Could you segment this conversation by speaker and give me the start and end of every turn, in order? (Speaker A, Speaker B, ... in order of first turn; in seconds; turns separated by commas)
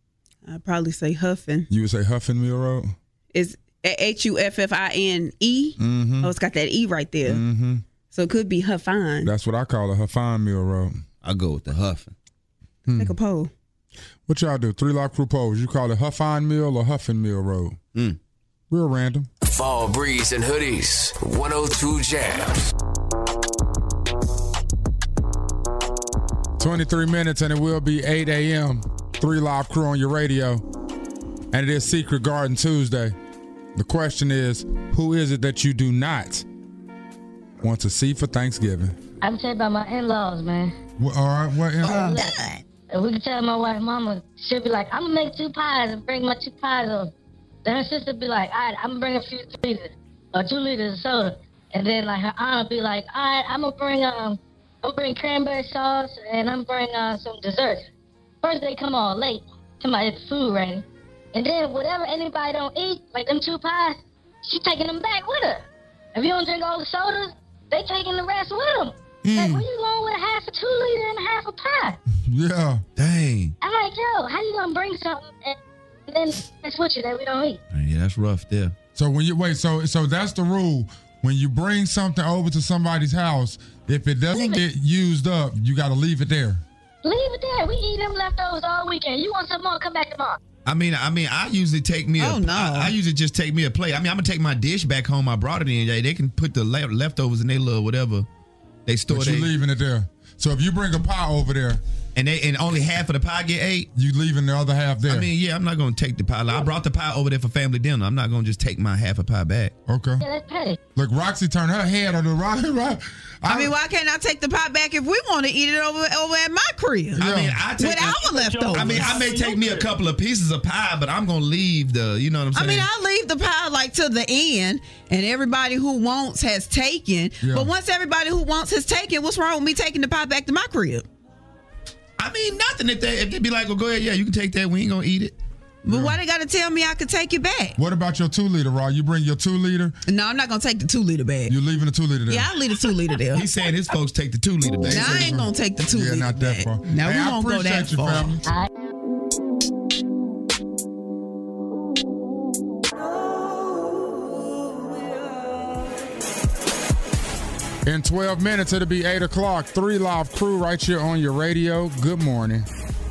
Speaker A: 0.5-1.7, Speaker B: 1.7-2.9, Speaker A: 3.3-7.4, Speaker B: 5.8-6.3, Speaker B: 7.3-7.8, Speaker A: 8.1-9.3, Speaker B: 9.2-11.0, Speaker C: 11.2-12.1, Speaker B: 12.9-13.2, Speaker A: 12.9-13.5, Speaker B: 14.3-17.8, Speaker B: 18.7-19.3, Speaker D: 19.4-22.7, Speaker B: 26.6-30.6, Speaker B: 31.5-33.2, Speaker B: 33.8-36.5, Speaker B: 37.6-39.0, Speaker E: 39.2-40.7, Speaker B: 41.0-42.2, Speaker E: 41.9-47.1, Speaker E: 47.6-57.9, Speaker E: 58.4-72.0, Speaker C: 69.2-69.7, Speaker B: 72.2-72.8, Speaker C: 73.0-73.5, Speaker E: 73.6-77.6, Speaker C: 77.7-78.7, Speaker B: 79.0-86.6, Speaker E: 84.3-84.6, Speaker E: 87.0-90.4, Speaker C: 90.7-98.3, Speaker A: 92.2-93.0, Speaker C: 98.9-99.5, Speaker B: 99.1-101.8, Speaker C: 102.2-103.9, Speaker B: 104.0-105.3, Speaker C: 105.1-109.7, Speaker B: 109.9-110.2, Speaker E: 110.2-110.8, Speaker B: 111.0-113.7, Speaker A: 113.5-117.2, Speaker B: 117.2-117.6, Speaker C: 117.2-122.9, Speaker A: 117.8-119.3, Speaker A: 122.5-131.0, Speaker B: 127.4-127.7, Speaker C: 132.2-135.3, Speaker A: 135.8-137.8, Speaker B: 135.9-136.2, Speaker B: 137.8-140.0, Speaker A: 140.1-141.5, Speaker B: 141.5-142.5, Speaker A: 142.3-143.5, Speaker C: 143.3-145.2, Speaker B: 144.8-148.5, Speaker A: 144.8-148.4, Speaker B: 157.9-162.7